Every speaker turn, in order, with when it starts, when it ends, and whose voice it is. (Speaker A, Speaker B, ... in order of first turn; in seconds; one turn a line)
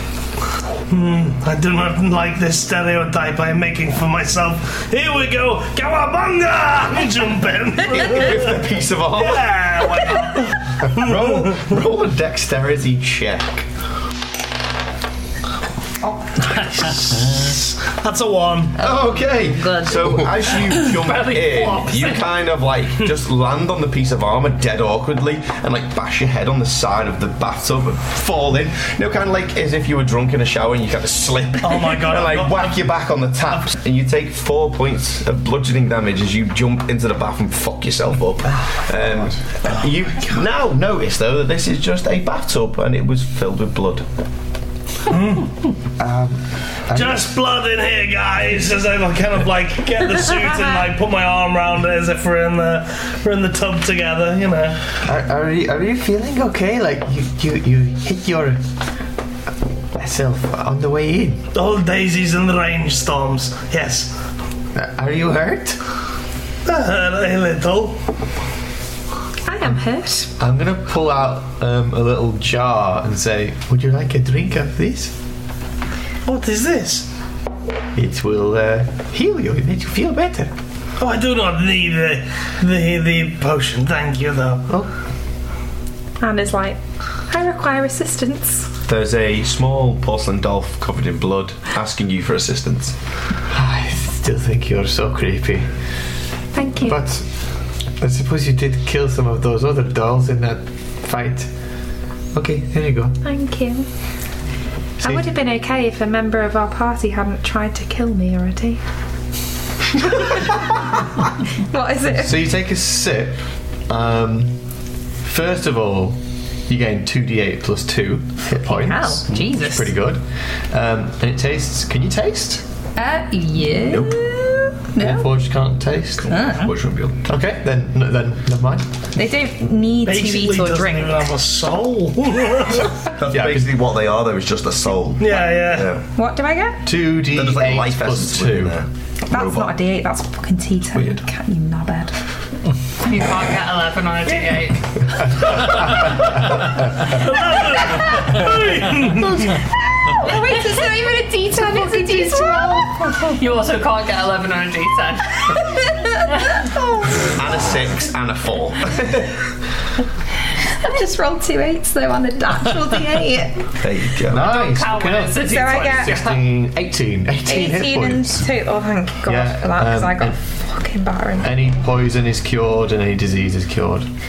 Speaker A: 0.9-8.6
Speaker B: 7.9-9.7
Speaker A: 9.2-11.6
Speaker B: 10.8-13.7
Speaker A: 16.4-18.8
Speaker C: 18.8-20.5
Speaker B: 18.8-44.1
Speaker D: 21.2-22.3
Speaker A: 31.6-32.6
Speaker E: 39.1-39.4
Speaker A: 45.1-45.7
Speaker E: 46.0-47.3
Speaker A: 46.9-54.9
Speaker E: 55.0-58.6
Speaker E: 59.9-61.5
Speaker A: 61.5-64.2
Speaker E: 64.7-65.8
Speaker A: 66.7-68.0
Speaker C: 69.5-70.3
Speaker E: 70.4-75.1
Speaker A: 76.2-77.1
Speaker E: 77.9-80.5
Speaker A: 81.0-84.7
Speaker C: 86.2-88.7
Speaker B: 88.9-93.0
Speaker E: 93.5-95.7
Speaker C: 96.5-97.0
Speaker E: 96.8-97.3
Speaker E: 98.0-101.5
Speaker E: 102.3-103.2
Speaker C: 103.2-103.9
Speaker C: 105.0-108.8
Speaker C: 111.5-112.4
Speaker E: 112.1-114.5
Speaker E: 115.2-122.6
Speaker C: 118.5-119.9
Speaker C: 123.0-125.3
Speaker B: 123.9-124.2
Speaker E: 125.0-126.4
Speaker B: 126.2-127.2
Speaker C: 126.3-126.7
Speaker E: 127.2-128.9
Speaker C: 129.1-131.3
Speaker A: 130.0-132.9
Speaker B: 133.1-136.1
Speaker E: 133.3-133.7
Speaker A: 135.2-135.9
Speaker C: 136.1-136.9
Speaker E: 136.8-138.8
Speaker B: 137.2-139.7
Speaker C: 139.3-142.2
Speaker D: 143.0-145.8
Speaker A: 146.9-149.5
Speaker C: 150.1-152.9
Speaker E: 151.8-152.8
Speaker D: 152.9-155.6
Speaker C: 155.5-157.3
Speaker B: 157.2-159.4
Speaker C: 160.8-163.7
Speaker B: 163.8-164.5
Speaker E: 164.3-168.5
Speaker D: 164.5-166.3
Speaker C: 165.4-166.3
Speaker C: 167.5-171.5
Speaker E: 169.2-170.4
Speaker E: 171.4-174.1